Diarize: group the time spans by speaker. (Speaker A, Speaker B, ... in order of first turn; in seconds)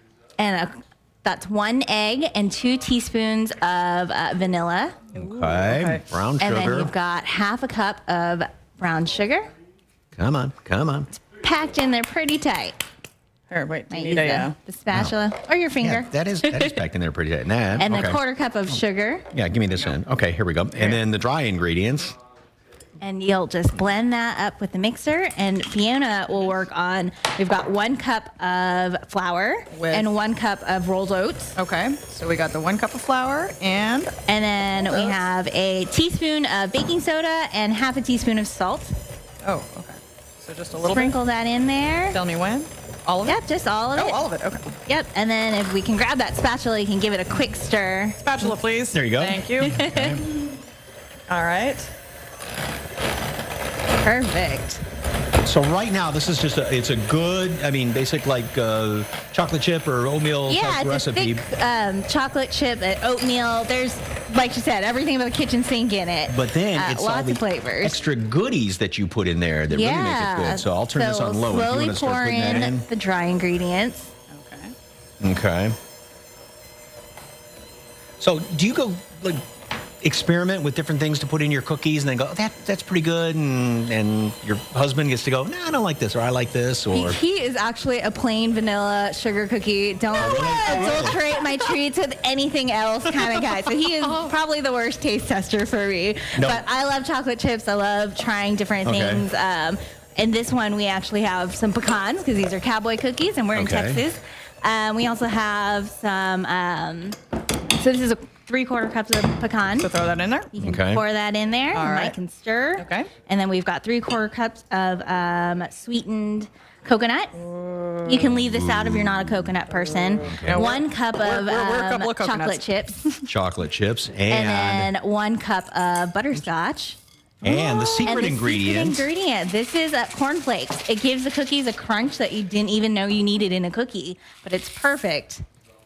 Speaker A: 0.4-5.0, 6.4-9.5, 11.3-12.8, 13.9-16.7, 17.8-19.3, 23.0-31.6, 34.2-38.9, 40.8-42.2, 43.2-44.2, 44.9-48.2, 49.7-50.2, 54.0-54.8, 60.5-68.0, 69.7-74.1, 86.9-107.2, 107.8-109.9, 110.5-117.4, 118.0-123.1, 124.3-127.0, 128.1-135.4
Speaker B: 5.1-6.9, 10.2-11.1, 15.8-18.2, 19.3-22.1, 48.9-50.2, 55.4-61.5, 66.3-72.9, 75.2-75.8, 78.2-79.4, 80.0-87.2, 90.1-91.2, 96.3-96.6, 98.8-99.2, 103.5-104.0, 110.6-111.0, 118.3-119.3, 120.2-120.8, 123.3-124.9, 127.4-129.1
Speaker C: 5.2-6.0, 13.5-14.5, 29.7-30.1, 31.6-34.1, 34.9-35.2, 39.4-41.2, 42.1-43.4, 44.0-44.7, 48.2-49.8, 51.3-51.9, 74.3-74.7, 90.3-90.9, 109.8-110.5, 111.7-112.2, 112.8-113.1, 120.5-122.6, 127.4-128.3